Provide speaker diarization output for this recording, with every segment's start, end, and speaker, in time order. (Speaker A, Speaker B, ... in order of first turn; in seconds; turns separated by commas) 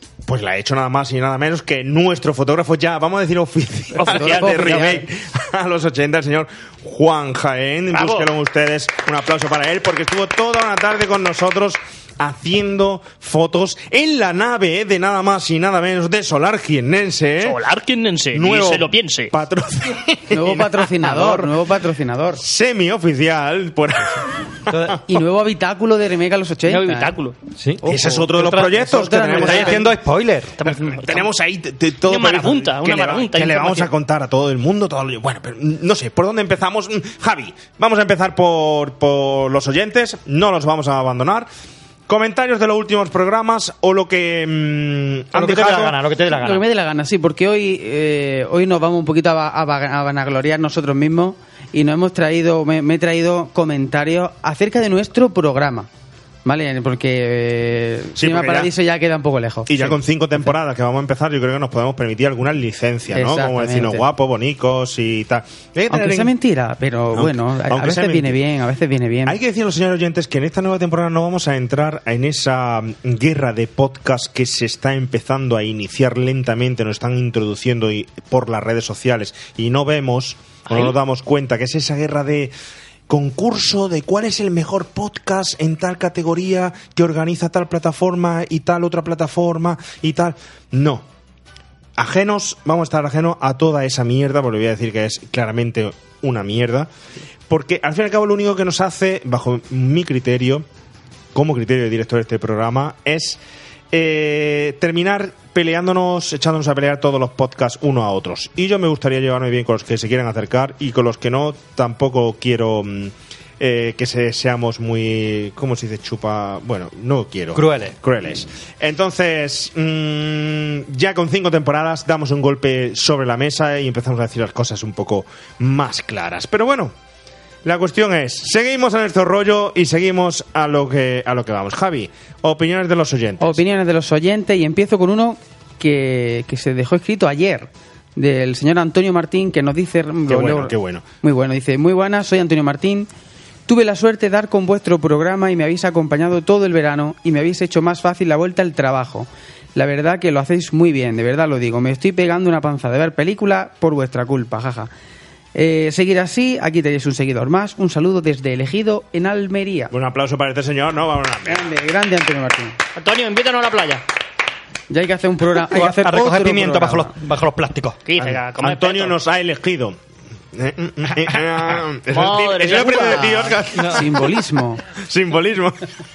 Speaker A: 0.2-17.6, Speaker B: 4.0-5.0, Speaker C: 4.0-5.0, Speaker B: 7.9-8.3, Speaker B: 17.4-19.3, Speaker A: 18.3-21.5, Speaker C: 20.3-22.4, Speaker A: 22.4-24.9, Speaker D: 24.7-25.0, Speaker C: 25.0-27.1, Speaker B: 26.6-27.4, Speaker D: 27.6-30.6, Speaker C: 27.8-29.8, Speaker A: 27.8-29.9, Speaker B: 30.6-31.2, Speaker A: 30.9-41.5, Speaker B: 32.1-33.9, Speaker A: 42.1-46.0, Speaker D: 45.3-46.6, Speaker C: 46.3-55.9, Speaker C: 56.4-60.0, Speaker A: 58.1-58.7, Speaker A: 59.7-66.3, Speaker C: 63.1-64.0, Speaker C: 65.9-69.4, Speaker A: 67.1-68.4, Speaker A: 69.2-82.5, Speaker A: 83.1-91.0, Speaker A: 92.0-96.9, Speaker A: 97.5-100.7, Speaker A: 101.3-103.4, Speaker A: 103.9-126.9, Speaker D: 117.5-117.9, Speaker A: 127.6-133.6, Speaker C: 133.4-143.1, Speaker A: 140.3-141.0, Speaker C: 143.7-154.9, Speaker C: 155.5-159.9, Speaker A: 159.9-161.7, Speaker C: 161.5-162.8, Speaker B: 162.9-164.0, Speaker C: 164.9-167.1, Speaker D: 165.6-168.0, Speaker B: 168.1-169.2, Speaker A: 168.2-170.0, Speaker A: 170.5-174.1, Speaker B: 172.1-173.6, Speaker C: 173.8-174.8, Speaker A: 174.9-175.8